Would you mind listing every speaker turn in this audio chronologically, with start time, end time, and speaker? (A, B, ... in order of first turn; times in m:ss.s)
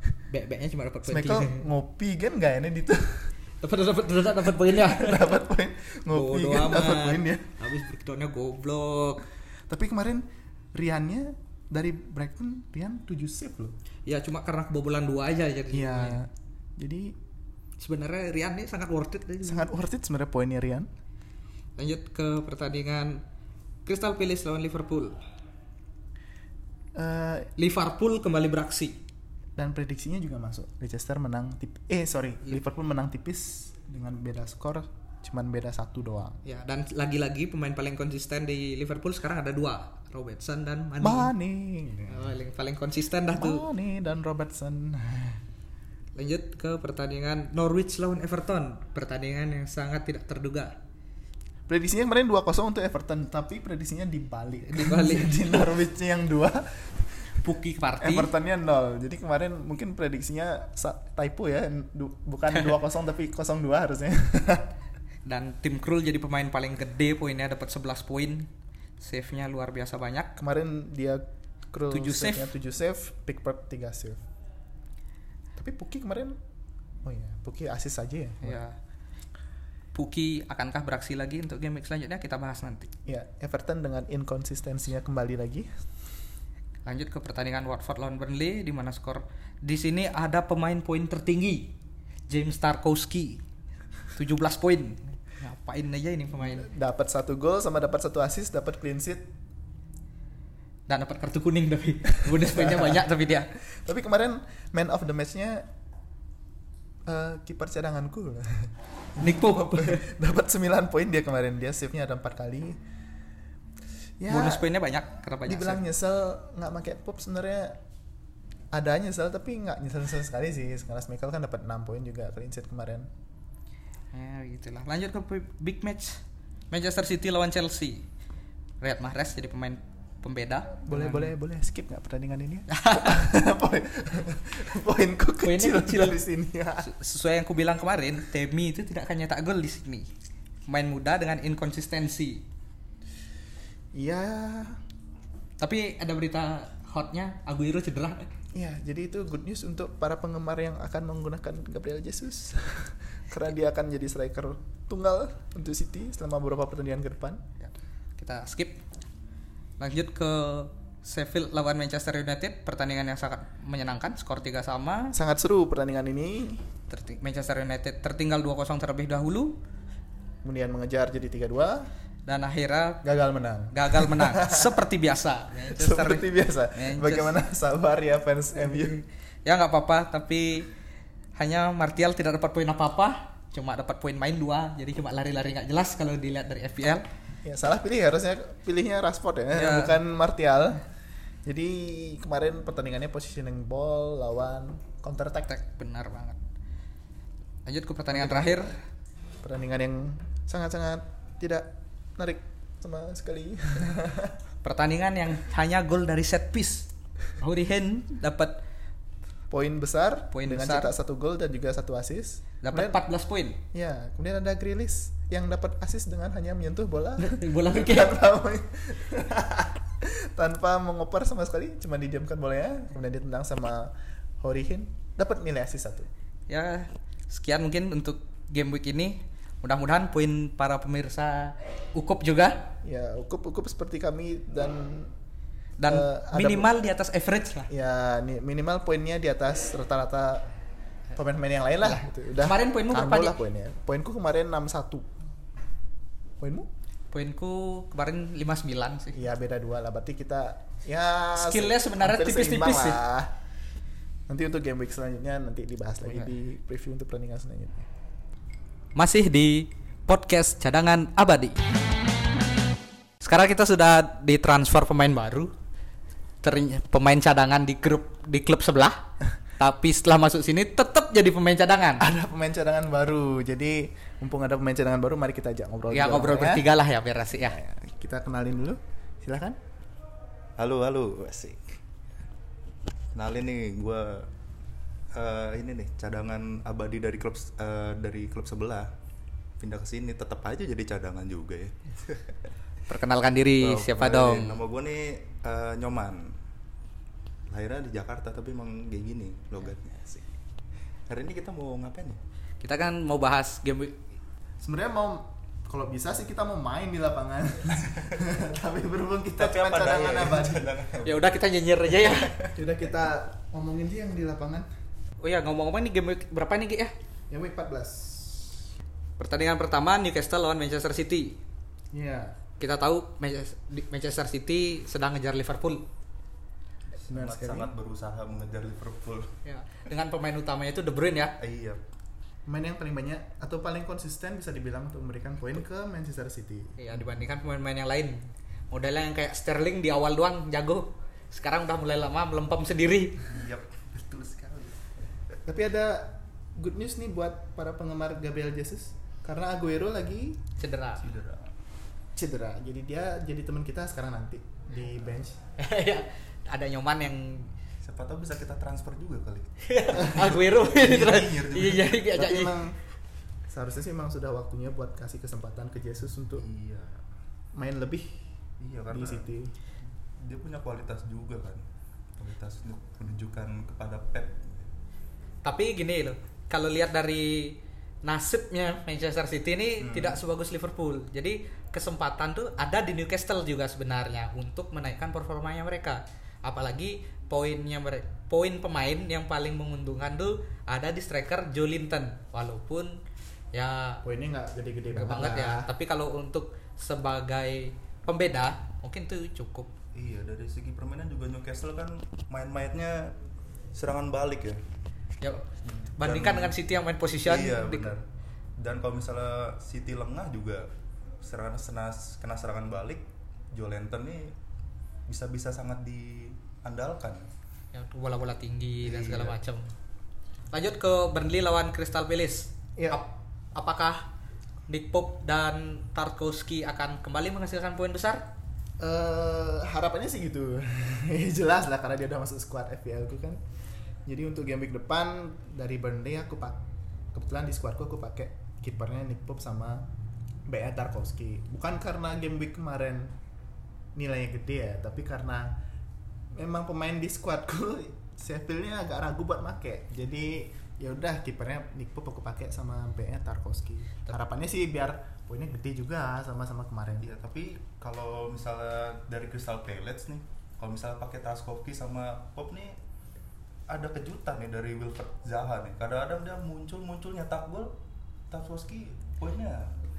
0:00.3-0:01.6 A
0:01.1-0:03.3 B
0:03.6-0:05.3 A
0:04.7-0:07.5 B
0:06.1-0:09.2 A
0:09.7-0:13.8 B
0:14.1-0:16.2 A
0:15.7-0:17.2 B
0:17.8-0:19.7 A
0:19.4-0:20.9 B
0:21.8-0:23.2 A
0:23.9-0:25.2 A
0:27.0-0:27.5 B
0:27.6-0:29.0 A
0:29.6-0:36.4 B
0:36.4-0:41.3 A
0:41.0-0:42.3 B
0:42.1-0:43.7 A
0:43.3-0:45.4 B
0:46.2-0:50.8 A
0:51.7-0:57.3 B
0:54.7-0:55.5 A
0:57.4-0:58.3 A
0:58.0-1:04.7 B
1:05.2-1:08.5 A
1:09.0-1:10.4 A
1:10.4-1:14.2 B
1:11.9-1:12.5 A
1:15.6-1:16.4 B
1:17.0-1:18.6 B
1:18.4-1:18.8 A
1:19.9-1:22.9 A
1:23.1-1:25.7 B
1:26.8-1:31.8 A
1:32.3-1:33.4 A
1:34.1-1:36.7 A
1:36.4-1:39.3 B
1:40.9-1:43.5 A
1:42.4-1:43.0 B
1:43.7-1:45.7 B
1:47.1-1:52.8 B
1:49.2-1:50.1 A
1:54.2-1:54.7 B
1:54.3-1:55.8 A
1:55.4-1:57.8 B
1:58.7-2:03.1 B
2:04.1-2:08.1 A
2:08.8-2:11.3 A
2:10.9-2:16.9 B
2:12.7-2:13.3 A
2:15.4-2:16.2 A
2:16.8-2:20.1 A
2:20.7-2:22.4 A
2:23.9-2:24.8 B
2:25.6-2:28.3 A
2:28.5-2:37.4 B
2:37.6-2:38.8 A
2:39.8-2:45.2 A
2:45.1-2:46.6 B
2:46.9-2:49.6 A
2:50.4-2:51.9 B
2:52.3-2:53.0 A
2:53.0-2:54.8 B
2:53.7-2:57.4 A
2:55.7-2:59.0 B
2:59.4-3:00.7 A
3:01.4-3:07.1 A
3:07.4-3:10.9 B
3:09.5-3:10.0 A
3:11.4-3:15.5 B
3:15.5-3:16.4 A
3:17.7-3:18.8 A
3:18.1-3:18.8 B
3:19.4-3:24.4 B
3:24.6-3:28.6 A
3:29.5-3:33.0 B
3:30.3-3:30.9 A
3:32.6-3:33.6 A
3:33.7-3:46.1 B
3:37.2-3:38.2 A
3:46.5-3:52.7 A
3:52.8-3:55.1 B
3:55.8-3:57.7 A
3:55.8-3:56.7 B
3:57.7-4:00.5 B
4:01.2-4:05.1 B
4:02.4-4:03.4 A
4:06.4-4:06.7 B
4:07.1-4:09.2 A
4:09.1-4:13.3 B
4:11.3-4:13.0 A
4:14.3-4:17.9 B
4:19.0-4:21.6 A
4:23.2-4:25.5 A
4:26.4-4:32.0 A
4:32.0-4:36.7 B
4:35.9-4:37.6 A
4:37.4-4:39.6 B
4:40.6-4:41.7 C
4:43.1-4:44.3 C
4:45.1-4:48.9 C
4:49.6-4:52.3 C
4:52.9-4:54.6 A
4:53.6-4:56.4 C
4:57.5-5:00.2 C
5:01.1-5:02.2 C
5:02.6-5:04.0 A
5:04.6-5:10.8 B
5:09.4-5:11.4 C
5:11.0-5:12.4 A
5:12.0-5:12.5 C
5:12.5-5:14.7 B
5:15.2-5:16.9 A
5:17.3-5:18.7 B
5:19.2-5:21.4 A
5:21.9-5:22.4 B
5:22.6-5:25.9 A
5:26.9-5:29.3 C
5:27.1-5:27.7 B
5:29.4-5:31.4 A
5:31.4-5:31.8 C
5:32.5-5:36.8 B
5:36.8-5:43.3 A
5:36.9-5:37.2 C
5:43.2-5:44.9 C
5:45.5-5:50.4 B
5:50.6-5:51.1 A
5:51.0-5:51.5 C
5:52.2-5:55.4 B
5:55.6-5:57.5 A
5:57.8-6:02.0 C
5:59.6-6:02.6 A
6:02.1-6:02.8 B
6:03.5-6:06.5 B
6:06.4-6:07.0 C
6:07.5-6:08.2 B
6:08.6-6:09.3 C
6:08.9-6:09.5 B
6:09.8-6:11.6 C
6:12.2-6:14.7 C
6:15.4-6:33.0 A
6:19.8-6:20.2 C
6:33.5-6:34.0 A
6:34.0-6:35.7 B
6:34.9-6:39.7 A
6:39.9-6:43.2 C
6:43.7-6:44.6 C
6:45.6-6:46.6 C
6:46.0-6:47.9 A
6:47.2-6:48.0 C
6:48.6-6:50.7 C
6:51.2-6:54.4 C
6:55.1-6:57.3 C
6:57.7-6:59.7 A
6:58.8-6:59.4 C
7:00.5-7:04.1 A
7:02.8-7:03.0 B
7:04.7-7:08.3 A
7:08.8-7:13.4 B
7:14.1-7:16.6 B
7:17.1-7:19.9 B
7:20.5-7:23.2 B
7:24.0-7:25.6 B
7:26.3-7:37.1 B
7:37.0-7:42.8 C
7:43.7-7:47.8 C
7:48.3-7:49.7 C